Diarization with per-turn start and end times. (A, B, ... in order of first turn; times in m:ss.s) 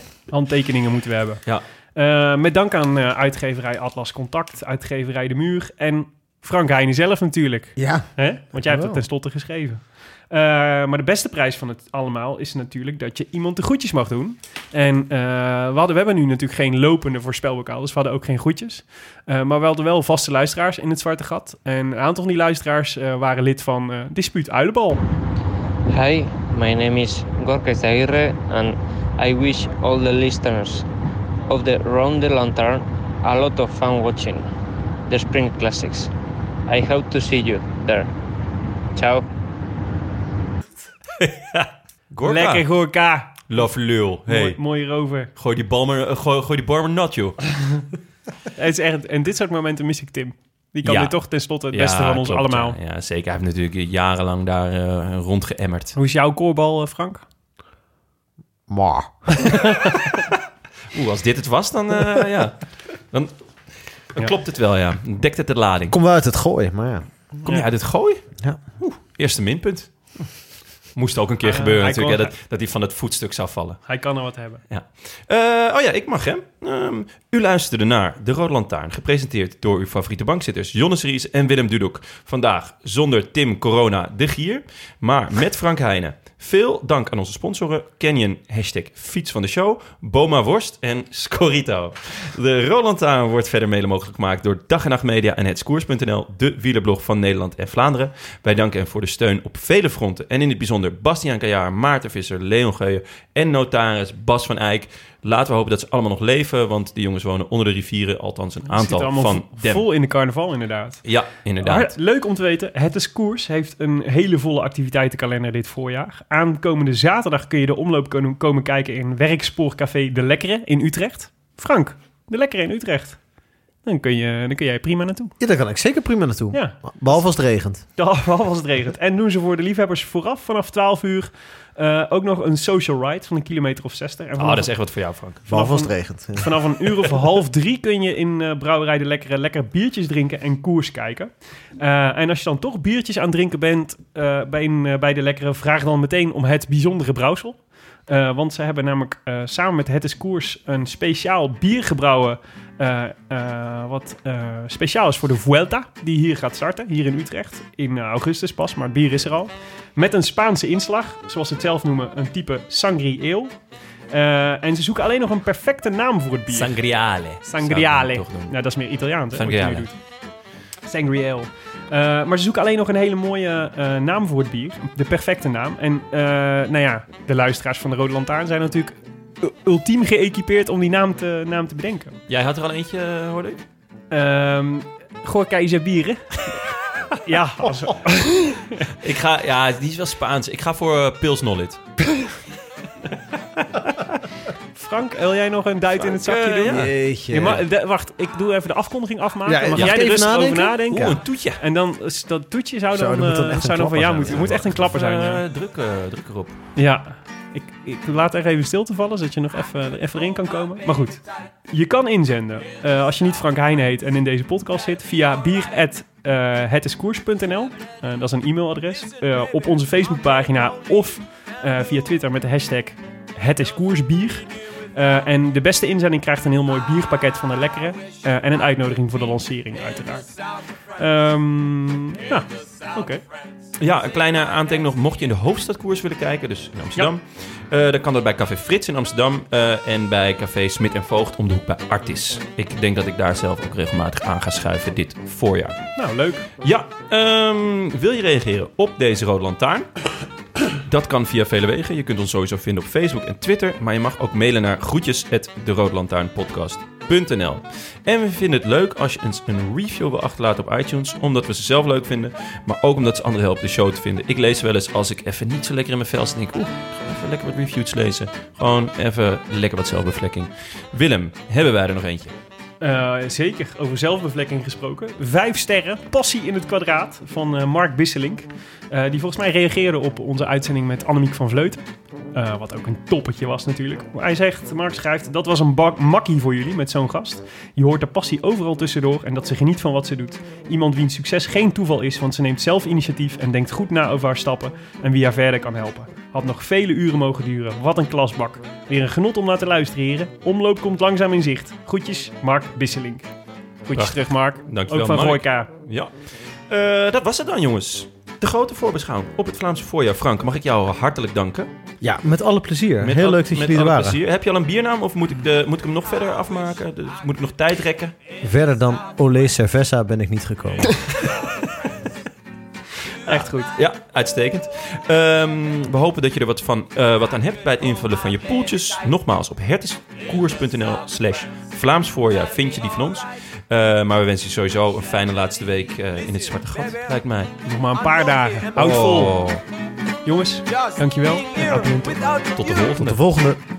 0:00.3-0:01.4 A
0:02.0-0:25.0 A
0:07.8-0:09.0 B
0:25.9-0:30.8 C
0:31.5-0:34.4 C
0:35.1-0:36.1 C
0:36.7-0:38.1 C
0:39.0-0:39.3 C
0:41.2-0:42.8 D
0:42.2-0:43.7 A
0:43.5-0:44.6 D
0:44.3-0:45.3 A
0:45.4-0:47.6 D
0:48.6-0:52.8 A
0:50.8-0:56.0 D
0:56.0-0:57.2 A
0:58.7-0:59.6 B
1:00.9-1:03.3 D
1:04.0-1:06.0 D
1:05.9-1:07.1 B
1:07.4-1:10.3 D
1:11.0-1:14.0 D
1:11.4-1:12.3 A
1:13.9-1:14.6 A
1:14.7-1:49.9 D
1:48.7-1:51.0 A
1:51.0-1:51.9 D
1:51.6-2:03.2 A
2:03.8-2:05.4 A
2:05.4-2:07.8 B
2:08.0-2:14.7 A
2:14.4-2:15.5 D
2:15.5-2:16.6 B
2:15.5-2:43.6 A
2:44.1-2:46.8 A
2:46.5-2:48.6 D
2:47.4-2:50.0 A
2:49.3-2:49.9 D
2:50.8-3:02.2 A
3:02.3-3:03.6 D
3:04.1-3:06.6 A
3:07.1-3:08.9 A
3:08.9-3:12.0 D
3:13.6-3:14.2 D
3:14.8-3:25.4 A
3:16.0-3:17.0 D
3:16.7-3:17.6 B
3:19.5-3:21.2 B
3:20.9-3:21.6 D
3:22.9-3:24.6 B
3:24.3-3:26.6 D
3:26.8-3:50.3 A
3:51.0-3:53.2 A
3:53.8-4:05.9 D
4:06.0-4:06.5 A
4:06.6-4:09.9 D
4:10.6-4:32.4 D
4:32.8-5:03.3 A
5:03.9-5:05.7 A
5:03.9-5:06.1 D
5:06.7-5:11.7 D
5:12.0-5:14.2 B
5:13.0-5:18.2 D
5:18.4-5:21.0 B
5:21.1-5:21.6 D
5:23.2-5:23.7 A
5:23.7-5:37.5 D
5:37.6-5:39.4 A
5:38.0-5:38.8 E
5:38.8-5:39.6 D
5:40.2-5:42.2 A
5:40.7-5:43.0 E
5:42.6-5:43.2 D
5:43.0-5:43.6 B